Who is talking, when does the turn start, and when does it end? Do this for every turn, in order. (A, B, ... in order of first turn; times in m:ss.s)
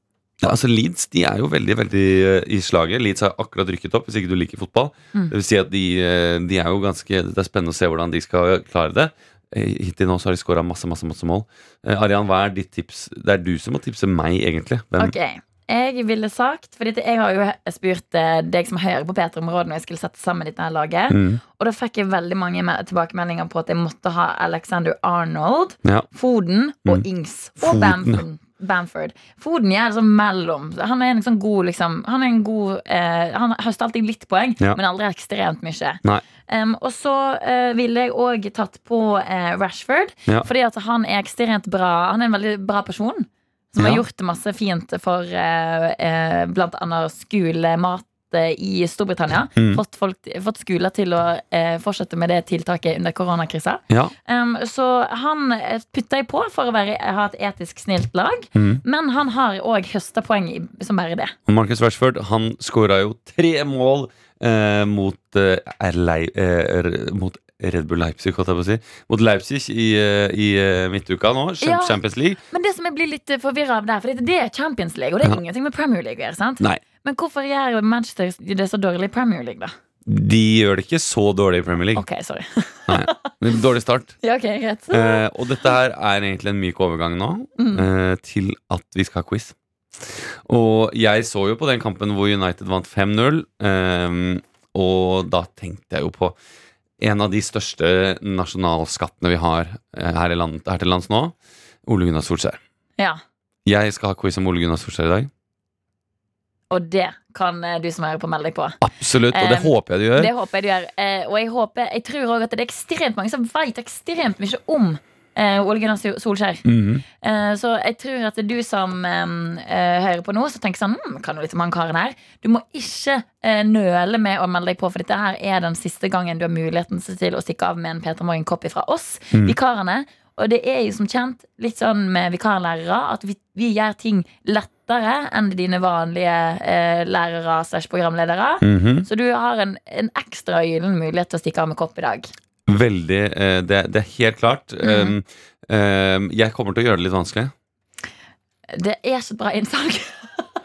0:00.4-0:15.2 A
0:15.0-1:01.4 B
0:21.1-0:21.4 A
0:27.6-0:28.2 A
0:43.8-0:44.0 A
0:49.6-0:49.8 A
0:58.6-0:58.8 A
1:01.5-1:12.4 A
1:11.6-1:12.0 B
1:12.5-1:19.7 B
1:20.1-1:22.0 A
1:22.0-1:23.3 B
1:22.9-1:24.2 A
1:24.2-1:25.3 B
1:24.9-1:29.6 A
1:27.6-1:27.9 B
1:30.5-1:36.4 A
1:37.0-1:41.4 A
1:41.9-1:42.6 A
1:43.6-1:45.3 A
1:46.7-1:48.8 B
1:48.8-1:50.3 A
1:49.3-1:56.6 B
1:56.6-1:57.0 A
1:57.2-2:22.3 B
2:18.6-2:19.1 A
2:22.7-2:27.5 A
2:24.8-2:25.1 B
2:28.7-2:30.5 B